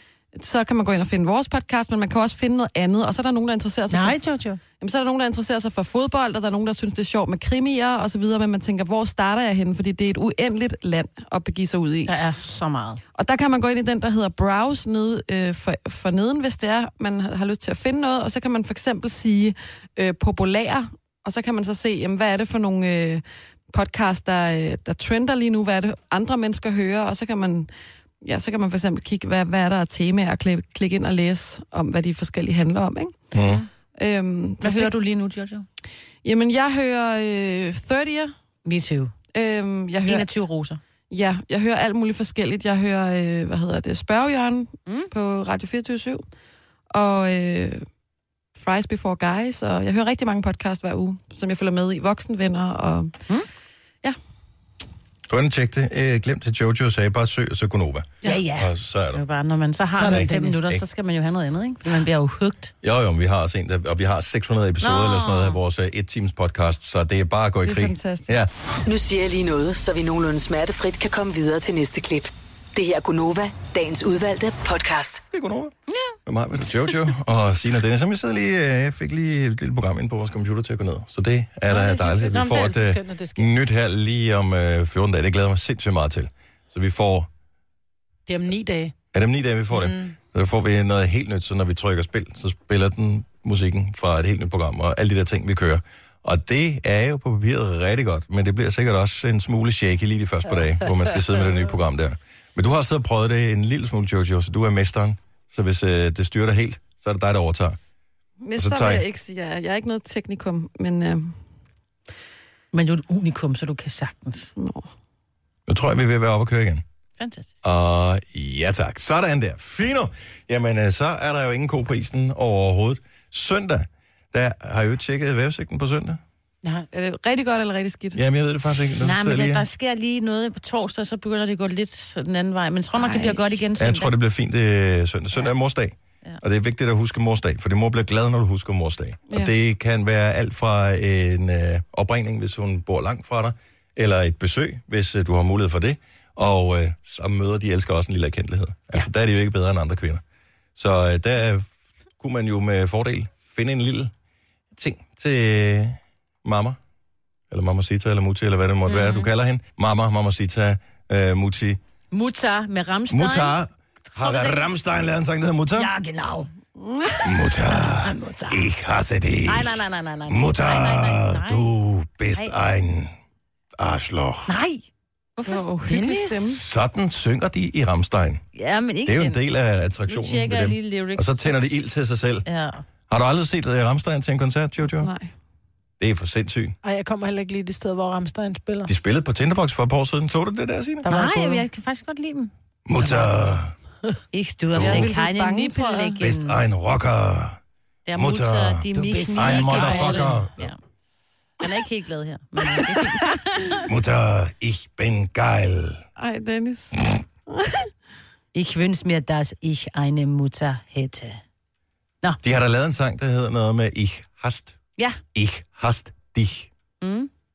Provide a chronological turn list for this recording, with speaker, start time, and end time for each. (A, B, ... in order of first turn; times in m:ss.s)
0:00.4-0:04.2 A
0:03.9-0:04.6 B
0:04.8-0:12.1 A
0:12.1-0:13.0 C
0:13.2-0:27.7 A
0:28.2-0:33.2 A
0:33.3-0:33.6 D
0:34.0-0:35.0 A
0:34.6-0:35.7 C
0:36.2-0:38.3 A
0:38.6-0:39.1 C
0:39.3-0:40.3 A
0:40.0-0:40.8 C
0:41.1-0:46.2 A
0:46.9-0:47.8 A
0:48.6-0:53.2 A
0:55.3-0:59.2 D
0:58.3-1:02.7 C
0:59.9-1:00.6 B
1:00.1-1:00.8 D
1:02.8-1:08.5 D
1:04.8-1:05.6 C
1:07.6-1:08.4 A
1:08.8-1:15.2 E
1:15.3-1:15.7 D
1:16.3-1:27.3 D
1:21.7-1:23.5 B
1:28.3-1:28.9 B
1:29.1-1:47.8 D
1:29.7-1:30.2 B
1:48.4-1:51.4 A
1:48.6-1:49.0 D
1:52.7-1:54.5 C
1:54.6-1:54.8 A
1:55.7-1:56.8 D
1:57.2-1:57.5 C
1:57.6-2:06.2 D
2:06.9-2:08.2 A
2:08.2-2:09.6 D
2:09.0-2:14.1 C
2:13.0-2:13.6 A
2:13.8-2:30.2 D
2:30.8-2:34.1 D
2:34.8-2:36.8 D
2:37.5-2:41.8 D
2:38.9-2:39.2 C
2:42.1-2:43.6 C
2:43.1-2:45.9 D
2:44.1-2:44.7 C
2:45.8-2:46.5 C
2:46.8-2:47.3 A
2:47.2-2:53.1 D
2:47.7-2:48.6 C
2:49.4-2:51.8 C
2:53.8-2:54.5 D
2:54.5-2:54.8 C
2:55.4-2:55.7 C
2:55.4-2:56.6 A
2:55.8-2:56.4 B
2:56.5-2:58.4 D
2:58.6-2:59.4 C
2:59.1-3:02.5 D
3:00.1-3:01.7 C
3:02.5-3:02.8 C
3:03.1-3:05.1 D
3:05.0-3:05.3 A
3:06.0-3:06.8 D
3:06.8-3:08.9 B
3:08.9-3:11.1 D
3:11.0-3:11.6 B
3:11.1-3:12.5 C
3:12.9-3:13.7 D
3:13.0-3:13.3 B
3:14.3-3:16.6 C
3:14.7-3:15.1 D
3:14.7-3:16.2 A
3:16.2-3:17.6 D
3:18.1-3:20.8 C
3:18.2-3:20.7 D
3:19.0-3:20.4 B
3:21.6-3:23.9 C
3:23.8-3:26.0 D
3:26.2-3:27.0 A
3:27.5-3:27.9 A
3:28.5-3:31.4 C
3:32.4-3:34.8 D
3:35.3-3:36.7 D
3:37.0-3:37.3 C